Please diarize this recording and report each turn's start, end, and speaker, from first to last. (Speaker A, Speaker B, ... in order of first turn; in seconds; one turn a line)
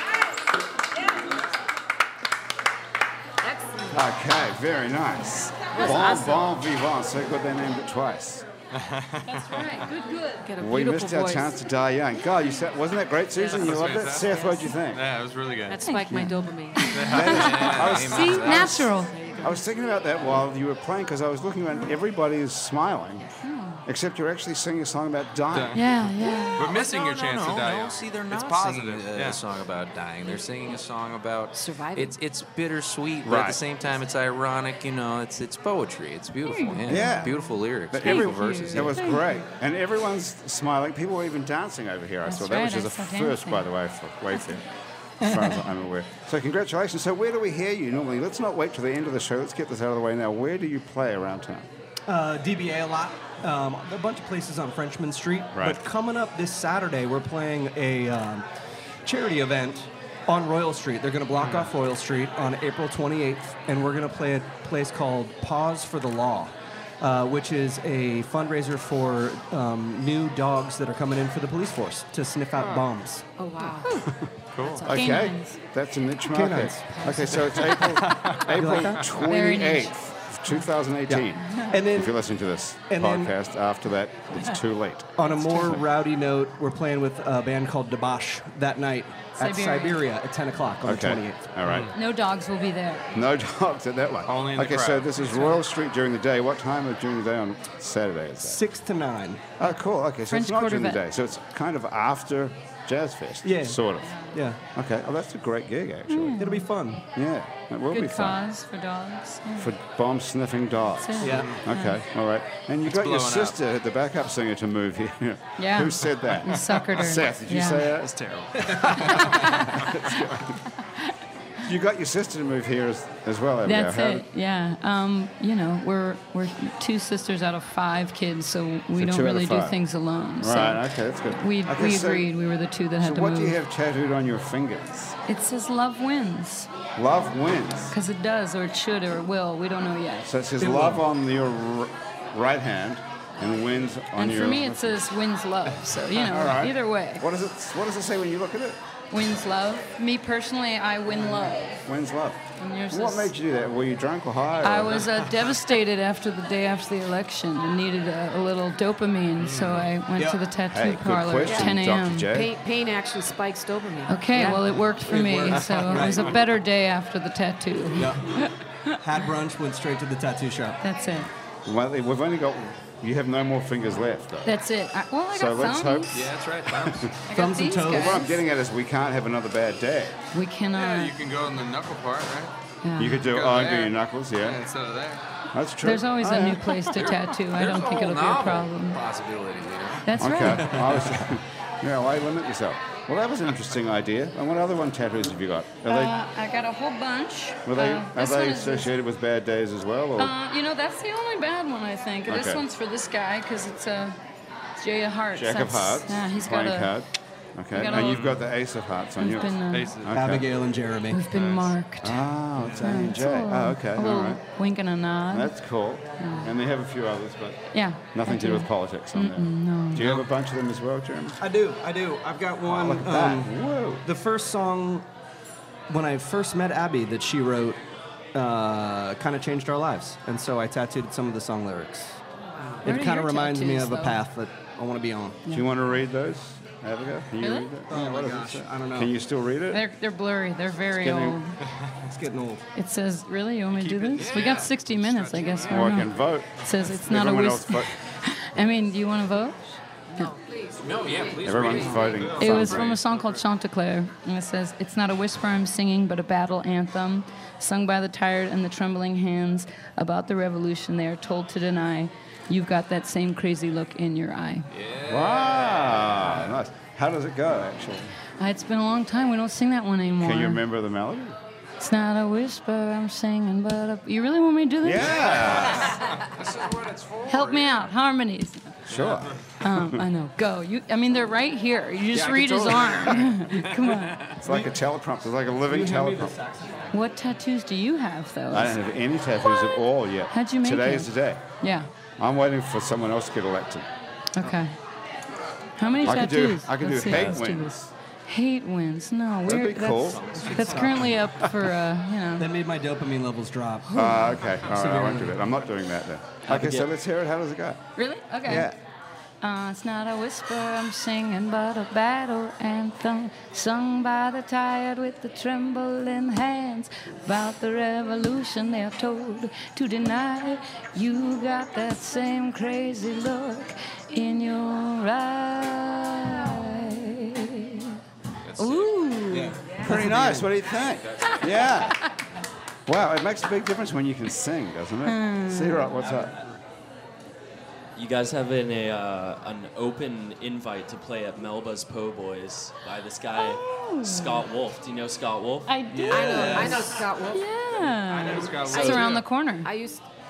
Speaker A: 3.4-4.0
Speaker B: 3.9-8.5
Speaker A: 5.7-6.4
Speaker C: 5.8-6.3
Speaker D: 8.7-9.8
Speaker C: 9.3-10.5
Speaker A: 10.4-11.6
Speaker B: 10.6-15.0
Speaker A: 13.4-14.7
Speaker D: 13.5-15.8
Speaker A: 15.7-17.4
Speaker C: 15.8-19.2
Speaker D: 16.9-18.1
Speaker B: 17.1-23.3
Speaker E: 17.2-18.9
Speaker A: 19.2-19.6
Speaker C: 23.4-23.8
Speaker B: 23.9-26.1
Speaker D: 25.5-25.9
Speaker C: 25.7-26.7
Speaker D: 26.5-29.4
Speaker E: 26.6-39.0
Speaker A: 30.2-30.8
Speaker A: 31.5-32.2
Speaker B: 33.2-33.6
Speaker C: 36.5-37.3
Speaker B: 36.9-44.6
Speaker C: 38.0-39.4
Speaker C: 42.3-43.7
Speaker B: 45.2-51.7
Speaker F: 52.1-58.5
Speaker B: 55.5-55.8
Speaker F: 59.0-73.2
Speaker D: 61.4-61.7
Speaker D: 72.6-72.8
Speaker A: 73.4-74.0
Speaker C: 73.8-74.1
Speaker D: 74.6-74.9
Speaker A: 74.6-74.9
Speaker B: 74.8-85.8
Speaker C: 74.9-75.6
Speaker F: 76.3-77.4
Speaker C: 77.0-77.3
Speaker A: 77.0-77.6
Speaker D: 77.8-78.8
Speaker F: 78.5-79.1
Speaker C: 79.2-80.0
Speaker F: 81.1-82.1
Speaker C: 81.5-81.7
Speaker F: 82.9-83.3
Speaker F: 85.2-91.6
Speaker C: 85.2-85.7
Speaker C: 89.4-90.0
Speaker B: 90.8-91.9
Speaker D: 91.6-91.9
Speaker C: 91.9-93.2
Speaker B: 93.1-98.6
Speaker D: 94.3-95.6
Speaker F: 98.4-99.5
Speaker B: 99.6-106.4
Speaker C: 100.3-101.0
Speaker F: 103.4-104.6
Speaker C: 104.0-104.4
Speaker C: 106.1-106.7
Speaker F: 106.4-107.0
Speaker B: 107.2-108.4
Speaker C: 107.9-109.7
Speaker B: 109.6-120.5
Speaker C: 111.0-112.0
Speaker F: 111.2-111.6
Speaker D: 111.3-111.6
Speaker D: 112.9-113.6
Speaker C: 115.6-117.9
Speaker D: 118.1-119.6
Speaker F: 118.6-118.9
Speaker C: 118.9-120.0
Speaker B: 121.6-124.2
Speaker C: 123.7-133.6
Speaker B: 129.0-129.8
Speaker B: 130.4-132.3
Speaker B: 133.0-135.1
Speaker C: 135.2-136.7
Speaker B: 137.0-138.0
Speaker C: 137.9-140.3
Speaker B: 140.2-145.0
Speaker F: 140.6-141.0
Speaker C: 144.2-147.2
Speaker B: 146.2-148.8
Speaker C: 149.1-151.8
Speaker B: 151.9-155.1
Speaker C: 152.6-153.3
Speaker C: 154.6-162.3
Speaker D: 159.4-160.0
Speaker F: 160.1-160.4
Speaker B: 160.7-162.5
Speaker A: 161.4-161.7
Speaker A: 162.3-164.7
Speaker C: 164.1-169.0
Speaker F: 164.4-166.4
Speaker D: 165.7-166.1
Speaker F: 167.9-168.4
Speaker F: 169.0-170.8
Speaker C: 170.8-171.3
Speaker B: 171.7-174.6
Speaker C: 174.4-176.3
Speaker B: 175.3-177.1
Speaker E: 176.1-177.1
Speaker C: 177.3-178.4
Speaker F: 177.3-178.3
Speaker B: 177.9-180.2
Speaker C: 180.3-181.2
Speaker D: 180.7-182.5
Speaker C: 182.8-183.2
Speaker B: 183.0-184.6
Speaker D: 183.2-185.2
Speaker B: 185.5-186.8
Speaker C: 185.8-189.0
Speaker E: 187.5-190.0
Speaker C: 190.1-190.8
Speaker B: 190.2-196.2
Speaker C: 195.8-198.9
Speaker B: 197.7-200.3
Speaker C: 200.2-204.2
Speaker B: 202.3-202.7
Speaker C: 204.8-206.9
Speaker B: 205.3-210.5
Speaker C: 207.7-208.2
Speaker D: 207.9-208.5
Speaker C: 209.2-210.0
Speaker D: 209.7-210.2
Speaker F: 210.1-211.2
Speaker C: 211.1-215.5
Speaker D: 211.3-211.8
Speaker B: 212.0-214.4
Speaker B: 215.3-217.6
Speaker C: 216.2-216.5
Speaker C: 217.7-220.1
Speaker B: 218.1-221.4
Speaker D: 220.0-220.3
Speaker F: 221.4-223.5
Speaker B: 222.7-224.1
Speaker F: 224.0-225.1
Speaker F: 225.9-227.8
Speaker F: 228.3-232.2
Speaker F: 232.8-235.4
Speaker C: 232.8-234.2
Speaker B: 235.5-239.8
Speaker C: 237.4-237.7
Speaker F: 237.9-239.2
Speaker C: 239.7-241.6
Speaker F: 242.1-242.6
Speaker C: 242.8-250.3
Speaker D: 243.7-245.8
Speaker E: 244.2-246.1
Speaker B: 245.7-247.9
Speaker A: 250.1-252.4
Speaker E: 250.8-252.6
Speaker G: 251.2-251.8
Speaker B: 251.4-253.0
Speaker D: 252.1-253.4
Speaker C: 252.4-264.7
Speaker E: 264.7-266.6
Speaker B: 265.1-268.1
Speaker C: 268.4-270.6
Speaker B: 270.2-271.4
Speaker C: 271.8-275.4
Speaker B: 274.8-276.0
Speaker E: 275.2-275.7
Speaker D: 275.9-276.4
Speaker E: 276.3-277.7
Speaker C: 277.3-278.7
Speaker B: 278.9-280.1
Speaker D: 278.9-279.5
Speaker C: 279.6-284.3
Speaker F: 282.2-282.9
Speaker B: 282.2-283.3
Speaker B: 284.4-286.4
Speaker F: 284.4-284.8
Speaker F: 285.6-286.9
Speaker C: 286.9-288.8
Speaker B: 288.5-291.4
Speaker C: 289.4-289.8
Speaker C: 290.3-291.9
Speaker B: 292.2-293.9
Speaker C: 294.4-294.8
Speaker C: 295.8-302.5
Speaker B: 296.0-297.9
Speaker B: 299.5-300.4
Speaker F: 300.3-301.3
Speaker F: 302.4-304.0
Speaker C: 303.9-304.4
Speaker B: 303.9-307.8
Speaker F: 304.7-305.4
Speaker G: 306.5-306.9
Speaker C: 308.0-308.7
Speaker B: 308.4-308.8
Speaker C: 309.4-327.9
Speaker E: 328.5-328.9
Speaker C: 328.6-330.0
Speaker F: 329.3-330.5
Speaker B: 329.8-332.1
Speaker E: 331.2-331.5
Speaker C: 331.3-332.1
Speaker B: 332.9-336.3
Speaker C: 335.1-336.0
Speaker F: 336.0-336.4
Speaker G: 338.0-347.1
Speaker C: 343.3-344.5
Speaker C: 345.7-346.8
Speaker F: 346.1-347.0
Speaker A: 346.1-347.4
Speaker C: 347.3-349.7
Speaker D: 348.0-349.3
Speaker G: 348.6-349.1
Speaker A: 348.7-350.0